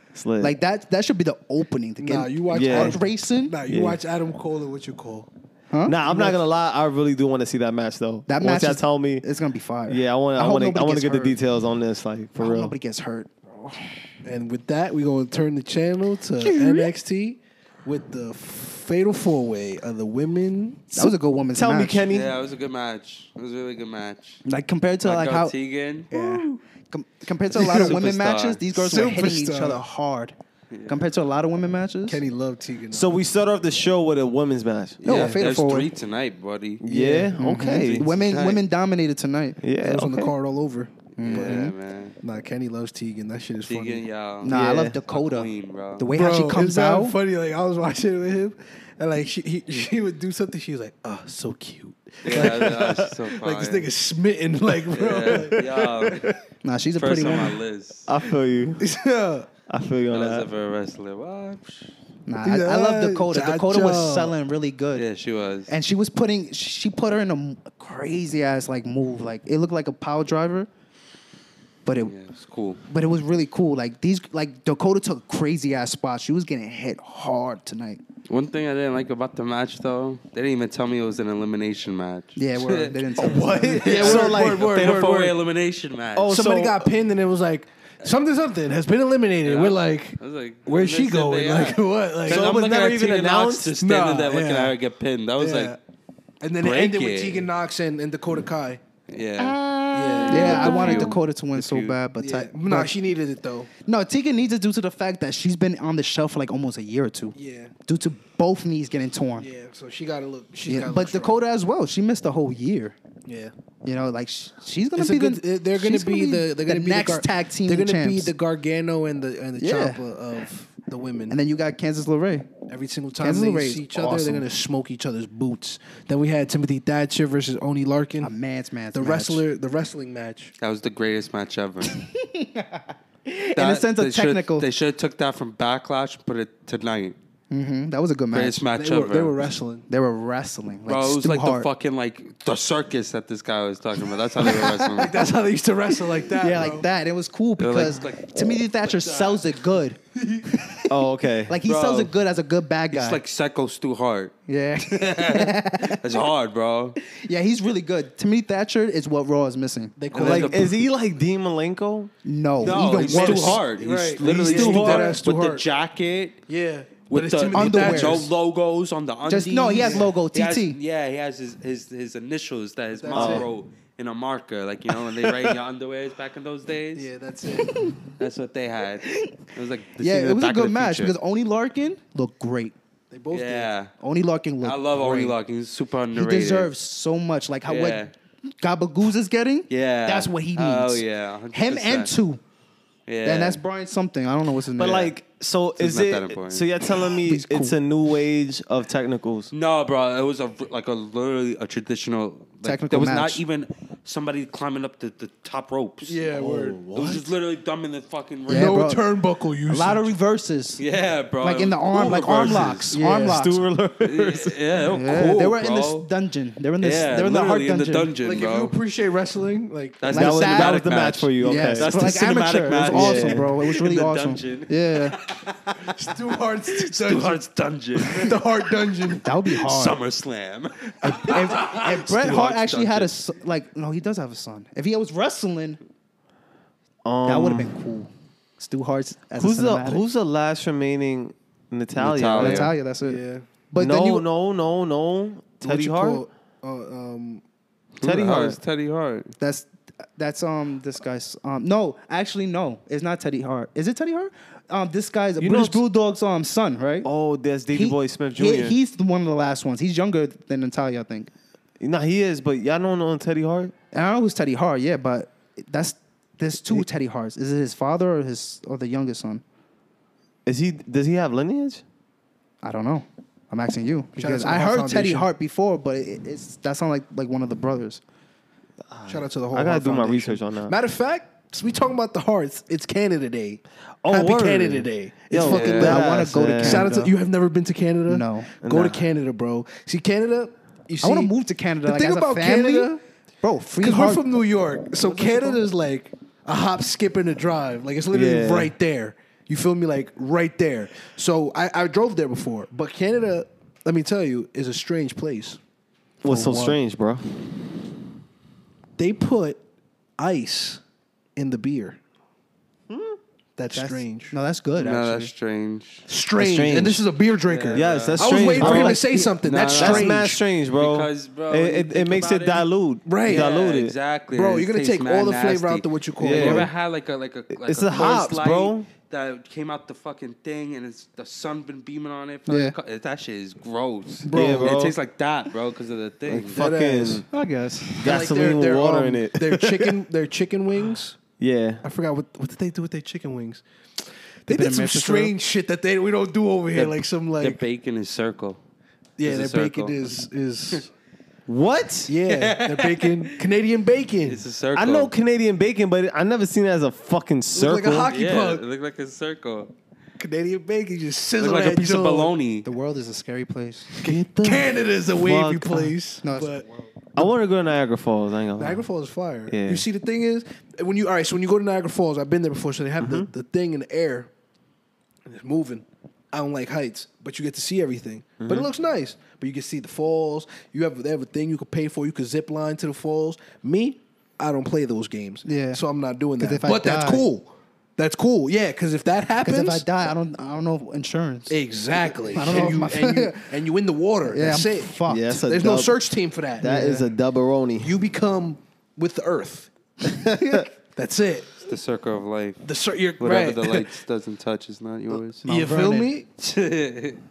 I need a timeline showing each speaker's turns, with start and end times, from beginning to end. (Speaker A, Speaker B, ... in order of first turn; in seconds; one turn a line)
Speaker A: 0.1-0.5
Speaker B: 0.4-3.5
Speaker C: 2.0-5.3
Speaker A: 2.5-3.0
Speaker A: 3.6-4.0
Speaker B: 5.7-6.0
Speaker A: 5.9-9.2
Speaker C: 6.0-6.4
Speaker B: 8.3-11.4
Speaker A: 9.9-12.7
Speaker B: 12.4-13.7
Speaker C: 14.2-20.9
Speaker B: 20.9-22.1
Speaker A: 21.0-22.3
Speaker D: 22.1-24.4
Speaker B: 24.4-25.5
Speaker D: 25.0-26.1
Speaker C: 26.1-26.6
Speaker B: 26.1-30.4
Speaker C: 27.5-28.1
Speaker D: 27.6-28.6
Speaker C: 28.7-29.8
Speaker D: 30.7-30.9
Speaker B: 30.9-32.2
Speaker C: 32.1-33.1
Speaker A: 32.9-35.0
Speaker D: 35.0-37.1
Speaker B: 35.0-35.9
Speaker C: 35.1-35.4
Speaker A: 36.8-38.1
Speaker B: 37.4-39.6
Speaker D: 37.8-38.6
Speaker A: 39.6-40.3
Speaker C: 39.8-41.7
Speaker B: 41.2-41.7
Speaker D: 41.2-42.1
Speaker C: 42.2-44.0
Speaker D: 43.7-46.1
Speaker B: 44.4-47.1
Speaker A: 44.5-45.0
Speaker C: 46.1-56.3
Speaker D: 52.2-53.9
Speaker A: 52.3-52.9
Speaker D: 54.9-56.4
Speaker B: 56.6-57.6
Speaker D: 57.0-58.1
Speaker A: 58.1-58.8
Speaker C: 58.8-59.5
Speaker A: 59.7-60.5
Speaker D: 60.1-61.9
Speaker B: 62.3-65.0
Speaker C: 62.4-64.3
Speaker D: 65.0-65.7
Speaker B: 65.7-70.7
Speaker B: 71.9-72.1
Speaker D: 72.0-72.8
Speaker B: 72.9-78.0
Speaker D: 78.3-86.3
Speaker B: 82.4-84.1
Speaker A: 83.2-85.1
Speaker C: 83.8-85.4
Speaker A: 86.2-86.9
Speaker C: 86.3-92.5
Speaker D: 89.4-95.8
Speaker A: 92.3-93.8
Speaker C: 93.8-94.8
Speaker C: 95.4-95.8
Speaker C: 96.4-98.8
Speaker D: 96.6-97.5
Speaker D: 99.1-102.0
Speaker B: 99.4-102.9
Speaker C: 99.9-101.2
Speaker C: 102.2-103.7
Speaker B: 103.9-107.3
Speaker C: 107.3-107.7
Speaker B: 107.9-109.5
Speaker C: 109.4-111.4
Speaker B: 110.7-112.9
Speaker C: 113.2-113.5
Speaker B: 113.8-118.3
Speaker C: 115.0-121.4
Speaker B: 119.6-120.0
Speaker B: 121.3-122.5
Speaker C: 122.7-128.3
Speaker B: 123.2-124.5
Speaker B: 128.2-129.4
Speaker C: 128.9-130.5
Speaker D: 130.6-132.0
Speaker B: 131.9-134.6
Speaker D: 133.6-137.2
Speaker B: 137.5-138.6
Speaker D: 138.3-139.4
Speaker C: 138.7-139.9
Speaker B: 139.9-141.7
Speaker D: 140.9-145.2
Speaker B: 144.4-144.9
Speaker C: 144.9-146.9
Speaker B: 146.4-150.9
Speaker D: 147.6-149.4
Speaker A: 150.9-151.6
Speaker B: 151.5-153.2
Speaker D: 151.7-152.1
Speaker D: 152.9-156.9
Speaker B: 154.5-156.2
Speaker B: 157.0-159.9
Speaker C: 160.0-160.8
Speaker D: 160.1-160.8
Speaker A: 160.2-162.1
Speaker B: 162.2-163.6
Speaker D: 162.6-166.4
Speaker C: 162.7-165.6
Speaker B: 164.2-165.2
Speaker C: 166.5-168.3
Speaker D: 167.1-177.1
Speaker B: 167.5-168.3
Speaker B: 169.3-170.8
Speaker C: 169.7-170.1
Speaker C: 172.9-173.5
Speaker A: 173.1-173.5
Speaker C: 176.9-177.7
Speaker B: 177.6-178.0
Speaker D: 178.2-181.1
Speaker B: 179.0-179.3
Speaker B: 180.0-182.7
Speaker C: 183.1-183.7
Speaker D: 183.3-183.9
Speaker B: 184.0-185.3
Speaker D: 184.6-186.7
Speaker B: 186.1-188.1
Speaker D: 187.7-188.1
Speaker B: 188.6-192.4
Speaker D: 189.7-192.1
Speaker D: 193.1-193.6
Speaker B: 193.2-195.1
Speaker A: 194.8-199.5
Speaker D: 195.8-196.7
Speaker B: 197.2-197.7
Speaker D: 199.5-208.8
Speaker B: 202.6-203.4
Speaker C: 206.0-207.1
Speaker B: 208.5-209.0
Speaker C: 208.5-210.1
Speaker B: 209.7-210.8
Speaker D: 210.8-212.9
Speaker B: 211.4-213.6
Speaker C: 212.9-213.4
Speaker A: 213.2-214.6
Speaker D: 214.0-216.1
Speaker B: 214.9-218.1
Speaker D: 216.8-218.7
Speaker C: 218.2-220.1
Speaker D: 220.0-226.0
Speaker B: 220.1-220.8
Speaker A: 220.1-221.9
Speaker B: 221.4-225.2
Speaker A: 222.9-223.5
Speaker C: 225.8-227.4
Speaker D: 226.7-233.1
Speaker C: 228.1-229.2
Speaker B: 229.2-230.0
Speaker B: 231.0-235.8
Speaker A: 237.0-237.7
Speaker B: 237.2-240.0
Speaker A: 239.4-242.7
Speaker D: 242.0-242.7
Speaker B: 242.4-244.2
Speaker C: 243.0-243.4
Speaker A: 243.8-246.2
Speaker C: 245.6-247.4
Speaker D: 248.0-249.3
Speaker A: 248.0-248.6
Speaker B: 249.4-257.1
Speaker A: 255.4-255.8
Speaker A: 257.0-258.8
Speaker B: 257.7-261.3
Speaker A: 261.8-263.7
Speaker B: 263.9-269.4
Speaker A: 270.4-271.8
Speaker B: 272.6-278.0
Speaker C: 274.1-275.3
Speaker A: 278.9-280.8
Speaker C: 279.1-291.3
Speaker A: 284.0-286.9
Speaker D: 285.4-286.0
Speaker B: 285.8-287.1
Speaker B: 288.1-288.5
Speaker A: 288.6-289.1
Speaker B: 291.0-292.9
Speaker C: 291.8-293.0
Speaker B: 293.4-294.2
Speaker C: 293.8-305.6
Speaker B: 295.0-295.6
Speaker A: 298.1-298.7
Speaker A: 306.2-307.2
Speaker C: 306.2-306.8
Speaker C: 309.0-309.6
Speaker C: 310.2-310.8
Speaker C: 311.4-312.0
Speaker A: 312.9-313.2
Speaker C: 313.6-314.3
Speaker B: 313.7-315.3
Speaker D: 314.8-316.0
Speaker C: 316.1-320.4
Speaker A: 316.4-317.0
Speaker D: 317.4-318.9
Speaker A: 317.7-319.0
Speaker B: 318.5-319.4
Speaker D: 319.4-322.7
Speaker A: 319.8-323.9
Speaker C: 323.1-323.5
Speaker D: 323.2-336.7
Speaker C: 324.3-326.7
Speaker A: 326.2-326.7
Speaker A: 327.5-328.9
Speaker B: 332.5-332.7
Speaker C: 334.2-334.8
Speaker A: 334.3-335.0
Speaker A: 336.3-337.2
Speaker C: 336.5-337.2
Speaker B: 337.3-338.4
Speaker A: 338.0-340.0
Speaker C: 338.0-341.2
Speaker A: 341.4-341.8
Speaker C: 341.8-343.6
Speaker C: 344.4-347.6
Speaker B: 344.5-345.3
Speaker D: 346.7-348.6
Speaker C: 349.2-350.9
Speaker D: 349.2-350.2
Speaker A: 351.5-352.1
Speaker C: 352.1-354.4
Speaker D: 352.2-353.5
Speaker D: 354.2-355.1
Speaker A: 354.8-358.1
Speaker C: 357.5-358.6
Speaker D: 358.1-359.7
Speaker C: 360.2-362.3
Speaker D: 361.4-362.6
Speaker B: 362.6-363.9
Speaker C: 363.9-366.7
Speaker A: 364.0-365.9
Speaker B: 366.2-366.9
Speaker A: 367.1-368.8
Speaker C: 368.6-374.3
Speaker A: 369.5-369.9
Speaker A: 373.0-373.3
Speaker C: 375.2-389.9
Speaker A: 378.4-378.7
Speaker B: 385.4-385.8
Speaker B: 386.4-387.2
Speaker B: 389.4-391.6
Speaker C: 391.5-397.0
Speaker B: 392.3-393.5
Speaker B: 394.2-395.4
Speaker A: 395.1-395.9
Speaker A: 396.6-397.9
Speaker B: 396.6-397.0
Speaker C: 397.8-399.7
Speaker A: 400.1-400.7
Speaker B: 400.1-400.7
Speaker C: 400.9-401.6
Speaker D: 401.6-402.6
Speaker C: 402.6-403.9
Speaker D: 403.2-405.4
Speaker B: 405.4-406.1
Speaker C: 405.4-406.3
Speaker D: 406.4-407.2